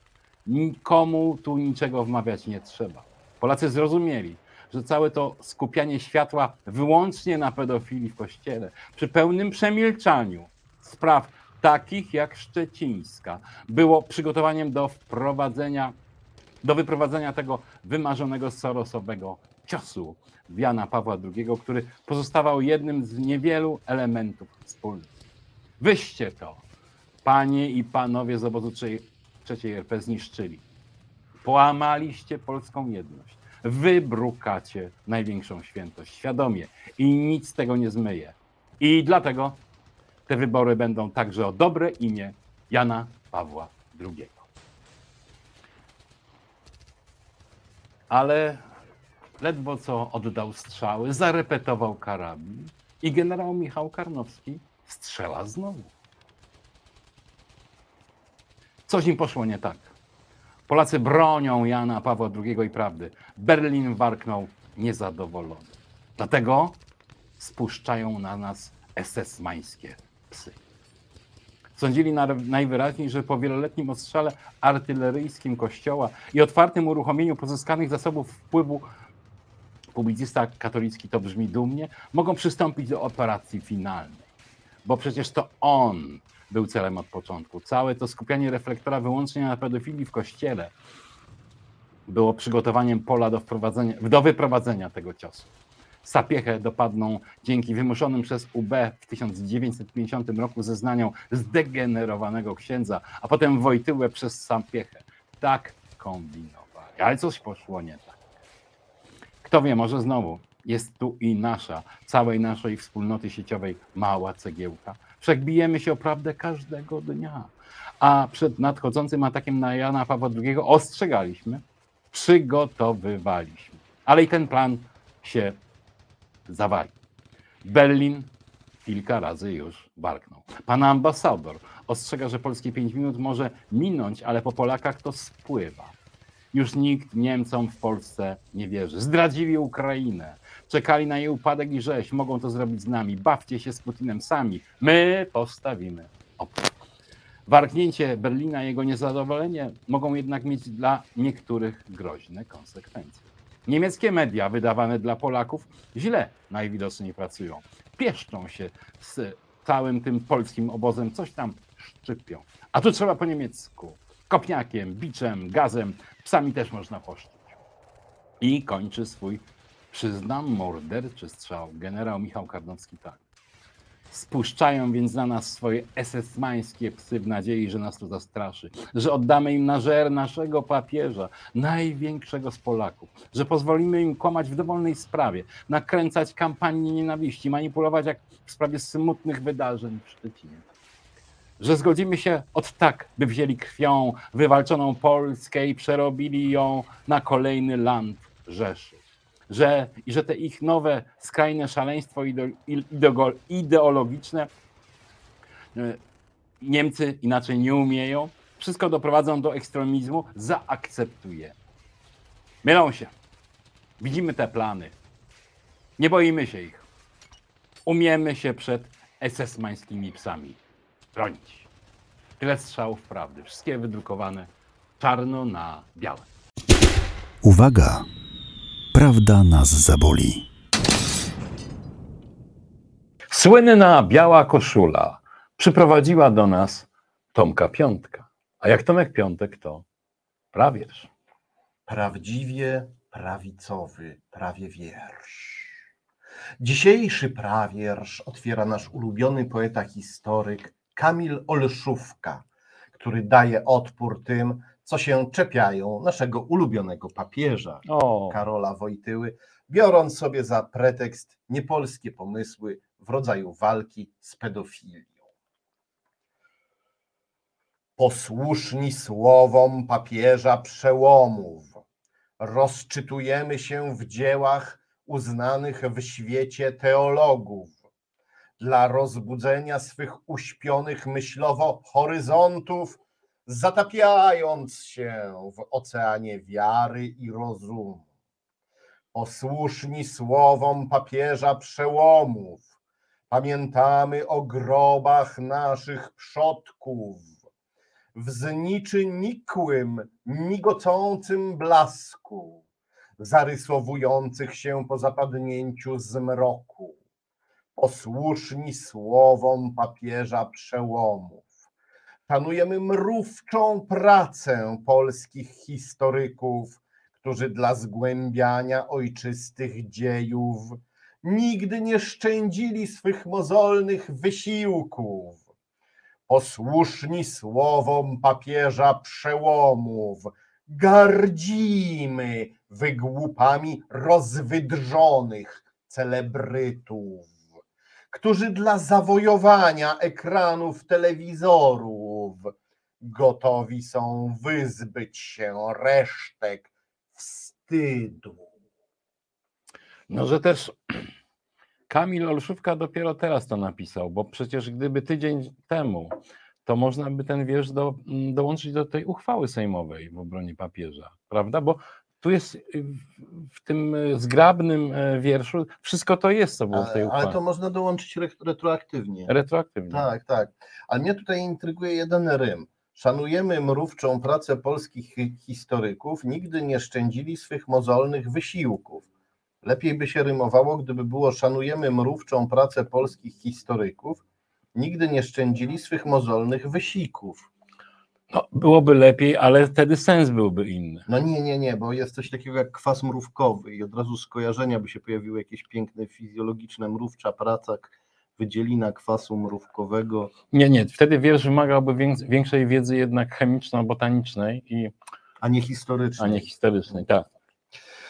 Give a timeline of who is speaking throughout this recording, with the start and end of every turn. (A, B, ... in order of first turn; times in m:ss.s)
0:00.4-0:16.0 A
0:16.6-0:25.1 A
0:25.8-0:26.6 A
0:27.2-0:30.6 A
0:31.4-0:39.6 A
0:40.3-0:44.5 A
0:48.1-0:48.6 A
0:49.4-0:55.9 A
0:58.9-0:59.9 A
1:00.7-1:06.8 A
1:07.4-1:10.6 A
1:11.8-1:18.8 A
1:19.9-1:24.2 A
1:24.8-1:30.7 A
1:32.1-1:35.5 A
1:36.0-1:48.2 A
1:49.4-2:05.6 A
2:06.5-2:06.9 A
2:07.6-2:08.3 A
2:08.8-2:15.9 A
2:16.5-2:26.7 A
2:27.5-2:47.6 A
2:48.4-2:53.2 A
2:54.1-3:10.6 A
3:11.6-3:24.5 A
3:25.7-3:26.0 A
3:26.6-3:31.5 A
3:32.6-3:33.1 A
3:34.0-3:34.9 A
3:36.0-3:36.8 A
3:37.8-3:40.6 A
3:41.1-3:41.7 A
3:42.4-3:46.3 A
3:47.4-3:48.0 B
3:48.9-3:50.5 B
3:53.3-3:59.8 A
4:00.5-4:01.1 A
4:01.9-4:05.7 C
4:06.6-4:12.4 C
4:13.0-4:25.1 C
4:17.8-4:18.4 A
4:28.0-4:31.8 C
4:32.4-4:37.7 C
4:38.6-4:48.0 C
4:49.1-4:52.6 C
4:53.3-4:57.3 C
4:58.1-5:02.6 C
5:03.2-5:06.9 C
5:07.8-5:11.5 C
5:12.3-5:25.4 C
5:26.3-5:37.3 C
5:38.1-5:48.5 C
5:50.1-5:51.0 A
5:51.9-6:07.4 A
6:06.7-6:09.3 C
6:09.3-6:10.1 A
6:09.9-6:19.1 C
6:19.6-6:24.2 C
6:24.7-6:27.5 C
6:28.3-6:31.1 A
6:31.1-6:40.3 C
6:40.5-6:44.9 A
6:45.4-6:46.5 C
6:46.2-6:47.3 A